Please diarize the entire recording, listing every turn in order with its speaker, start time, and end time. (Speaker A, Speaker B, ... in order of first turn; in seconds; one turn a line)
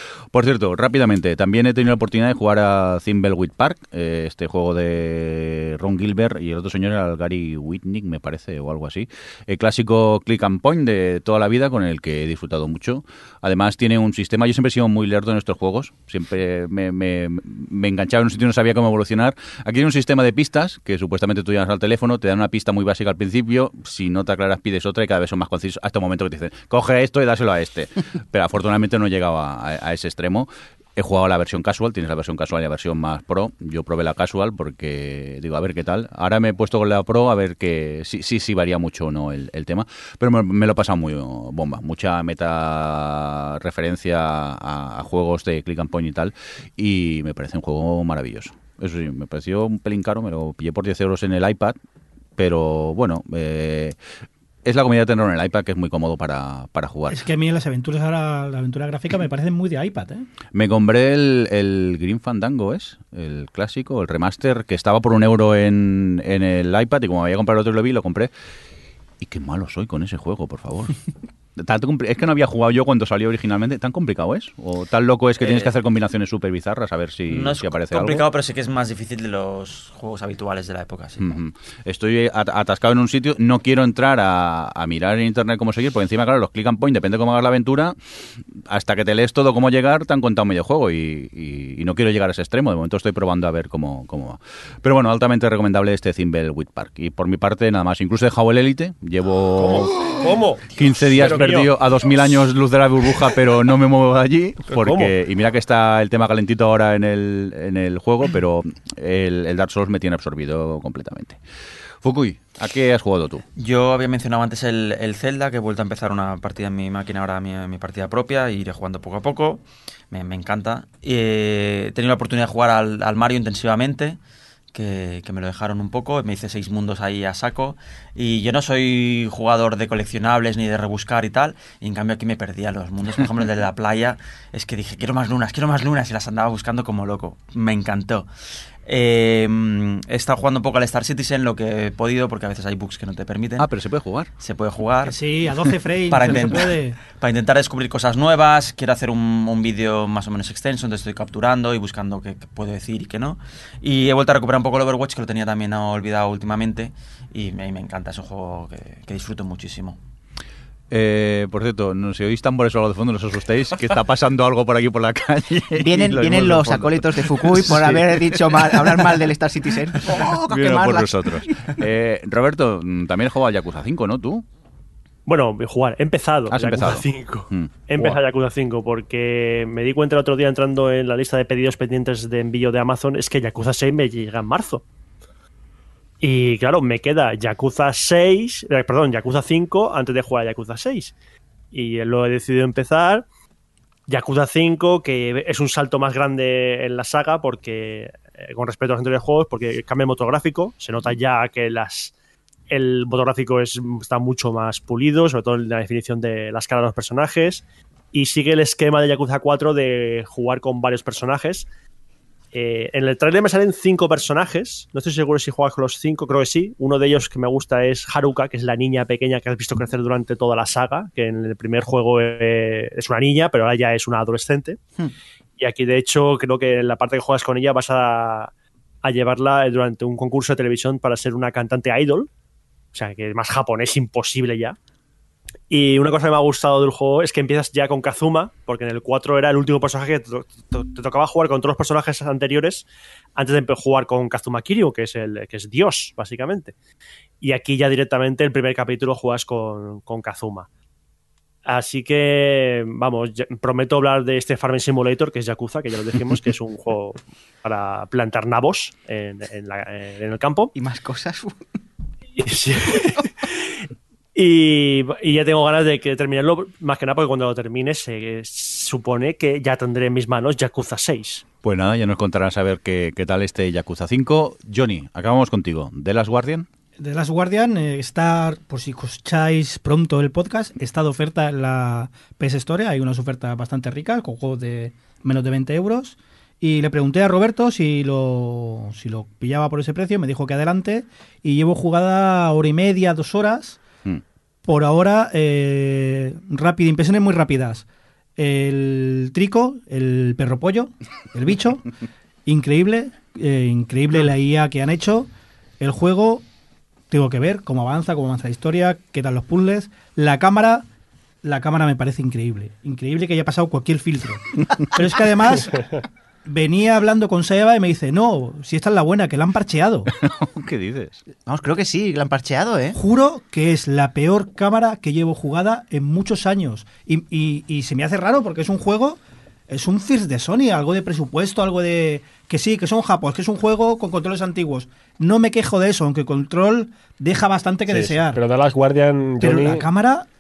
Speaker A: 0.3-51.8
Speaker A: 52.4-54.0
Speaker A: 54.6-57.2
Speaker B: 57.1-60.3
Speaker A: 60.5-68.3
Speaker A: 69.2-71.0
Speaker A: 71.6-78.2
Speaker C: 75.4-75.7
Speaker C: 77.3-81.3
Speaker A: 81.2-88.0
Speaker A: 88.6-111.4
Speaker D: 99.6-101.7
Speaker D: 104.7-105.1
Speaker A: 112.0-113.4
Speaker C: 113.6-124.2
Speaker C: 124.7-138.3
Speaker C: 138.9-143.7
Speaker A: 143.6-144.3
Speaker C: 144.4-145.2
Speaker B: 145.0-147.0
Speaker C: 146.1-160.0
Speaker A: 160.9-169.1
Speaker E: 165.8-171.7
Speaker A: 170.1-174.4
Speaker F: 175.3-184.8
Speaker A: 176.5-177.7
Speaker F: 186.2-191.1
Speaker F: 191.7-193.2
Speaker F: 194.1-202.1
Speaker F: 202.7-211.7
Speaker F: 212.5-224.8
Speaker F: 225.6-228.5
Speaker F: 229.0-232.3
Speaker F: 232.9-234.8
Speaker F: 235.7-242.8
Speaker F: 243.3-246.7
Speaker F: 247.4-250.7
Speaker F: 251.7-260.7
Speaker E: 260.8-261.6
Speaker F: 262.4-263.3
Speaker F: 264.4-271.4
Speaker A: 271.6-276.7
Speaker B: 277.0-293.8
Speaker B: 294.7-297.9
Speaker B: 298.4-301.9
Speaker B: 302.5-305.3
Speaker B: 305.8-306.4
Speaker B: 307.1-310.9
Speaker B: 311.4-315.8
Speaker B: 316.4-320.1
Speaker A: 320.1-321.2
Speaker E: 321.5-323.0
Speaker B: 322.9-329.2
Speaker B: 329.7-338.4
Speaker D: 337.9-339.9
Speaker B: 339.4-340.3